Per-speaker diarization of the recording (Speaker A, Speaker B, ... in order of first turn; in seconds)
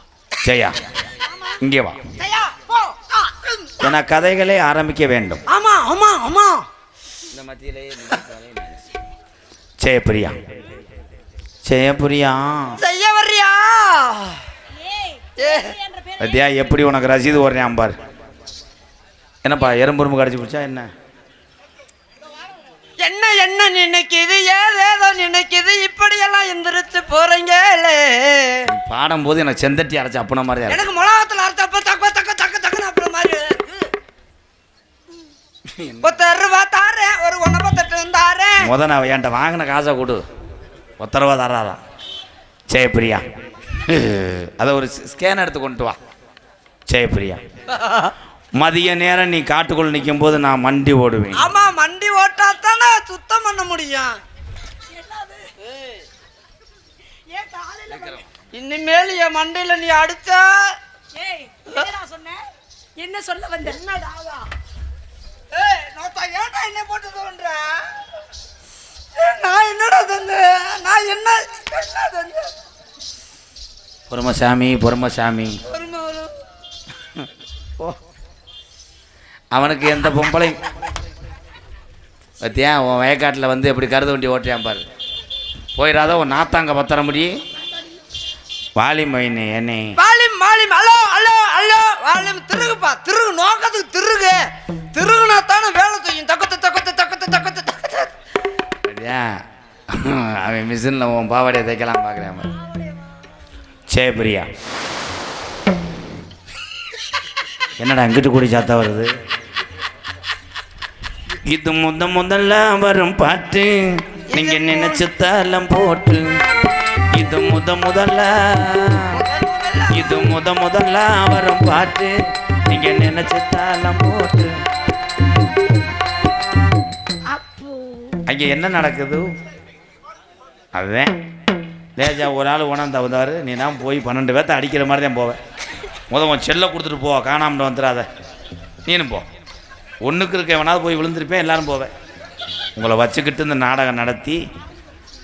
Speaker A: 0.4-0.8, 1.6-2.0, 3.8-5.4, 7.3-8.8, 9.8-10.4, 11.6-12.8, 16.2-17.9, 19.4-20.9, 28.7-30.8, 35.7-36.1, 38.6-40.2, 41.0-41.8, 42.7-43.2, 43.9-46.0, 46.9-47.4, 48.5-51.4, 57.9-58.2, 74.1-75.6, 79.5-80.6, 82.4-84.8, 85.8-87.3, 88.8-89.9, 98.8-102.5, 103.9-104.5, 107.8-109.1, 111.5-116.3, 117.1-119.2, 119.9-122.1, 122.7-124.5, 128.3-129.2, 130.7-131.1, 132.0-135.4, 136.1-138.1, 138.8-139.2, 140.0-141.9, 142.8-144.4
Speaker B: 2.2-3.9, 5.5-6.6, 12.8-14.4, 15.4-15.7, 23.0-28.7, 30.7-33.8, 36.0-38.7, 47.7-48.1, 51.3-54.2, 58.5-60.8, 63.6-64.5, 65.5-68.0, 69.1-72.5, 75.7-76.3, 90.0-98.1, 114.3-115.0, 119.1-120.1
Speaker C: 14.8-16.4, 54.9-55.4, 57.3-58.2, 61.1-62.4, 63.0-63.8, 127.3-128.2